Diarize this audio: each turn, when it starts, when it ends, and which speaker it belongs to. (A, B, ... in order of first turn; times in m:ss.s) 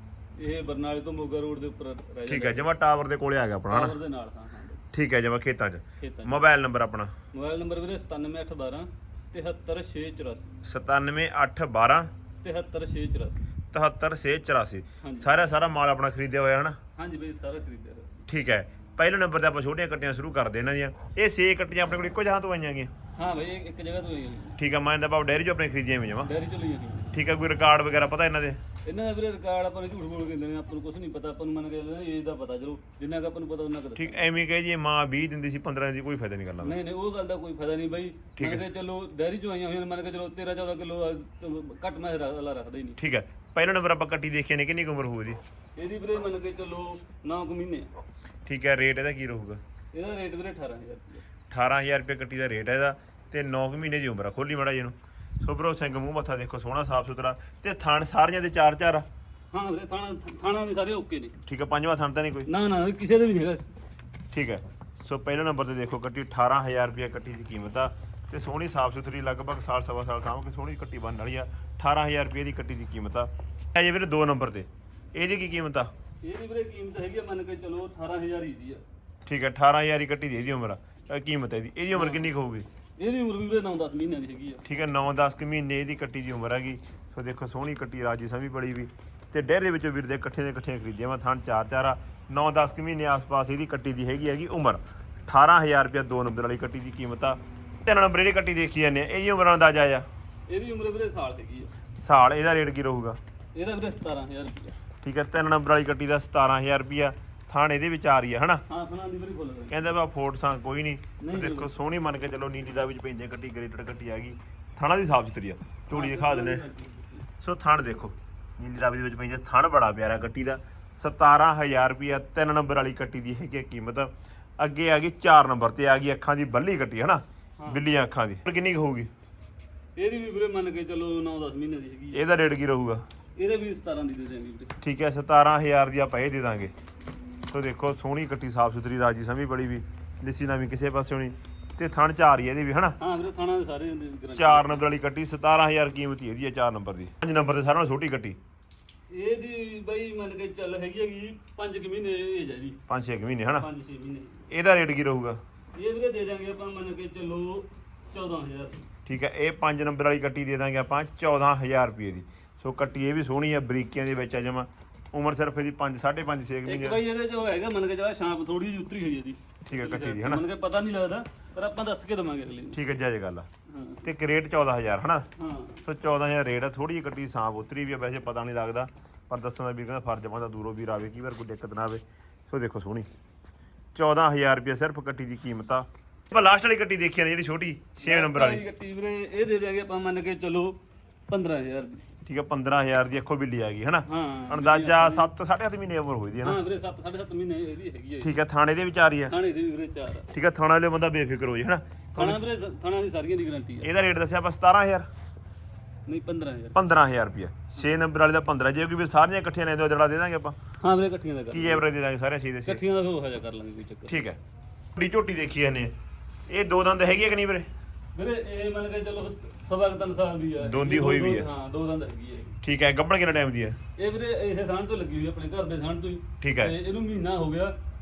0:00.4-0:02.7 A
0:02.3-0:04.0 B
0:03.7-0:04.9 A
0:04.9-0:07.1 B
0:06.0-0:06.5 A
0:07.3-0:10.6 A
0:10.6-0:12.1 B
0:12.4-0:13.4 A
0:13.7-0:16.8 B
0:15.0-0:15.3 A
0:17.0-0:18.2 A
0:18.3-0:22.9 B
0:23.2-0:24.6 A
0:24.6-0:26.3 B
0:26.2-0:27.2 A
0:27.1-0:28.6 B
0:28.8-0:34.3 A
0:34.0-0:36.8 B
0:36.6-0:43.0 A
0:38.4-0:38.6 B
0:43.0-0:45.4 B
0:45.8-0:47.9 A
0:48.5-0:49.6 B
0:49.9-0:51.2 A
0:51.5-0:59.1 B
0:59.5-1:01.4 A
1:01.5-1:02.5 B
1:02.5-1:03.7 A
1:04.3-1:15.9 B
1:16.2-1:18.8 A
1:19.3-1:22.7 B
1:21.9-1:22.3 A
1:23.0-1:24.6 A
1:24.6-1:40.1 B
1:40.5-1:41.7 A
1:42.0-1:43.2 B
1:43.6-1:44.8 A
1:45.0-1:48.6 B
1:48.7-1:49.8 A
1:49.7-1:56.6 B
1:51.2-1:51.7 A
1:55.9-1:57.3 A
1:57.4-2:09.1 B
2:10.0-2:12.2 A
2:12.1-2:13.0 B
2:13.4-2:14.8 A
2:14.8-2:16.7 B
2:17.5-2:23.0 B
2:23.0-2:24.8 A
2:24.4-2:28.4 B
2:29.1-2:32.8 A
2:32.9-2:33.7 B
2:33.6-2:34.5 A
2:34.5-2:35.4 B
2:35.7-2:38.9 A
2:39.1-2:47.0 B
2:46.6-2:52.8 A
2:49.6-2:50.4 B
2:52.7-2:53.5 B
2:53.7-2:54.1 A
2:54.0-2:55.3 B
2:55.4-2:55.8 A
2:55.8-3:03.1 B
3:04.0-3:08.6 B
3:08.0-3:12.0 A
3:12.2-3:16.6 B
3:14.1-3:15.3 A
3:16.4-3:18.4 A
3:18.2-3:19.4 B
3:19.3-3:20.3 A
3:20.3-3:22.4 B
3:22.2-3:23.9 A
3:23.8-3:25.1 B
3:26.1-3:27.0 A
3:26.8-3:30.6 B
3:30.8-3:31.9 A
3:31.5-3:32.8 B
3:32.6-3:34.2 A
3:34.1-3:34.4 B
3:35.0-3:35.9 B
3:36.5-3:37.7 B
3:38.1-3:42.6 A
3:40.6-3:41.5 B
3:42.6-3:43.8 B
3:44.0-3:47.8 A
3:46.4-3:46.8 B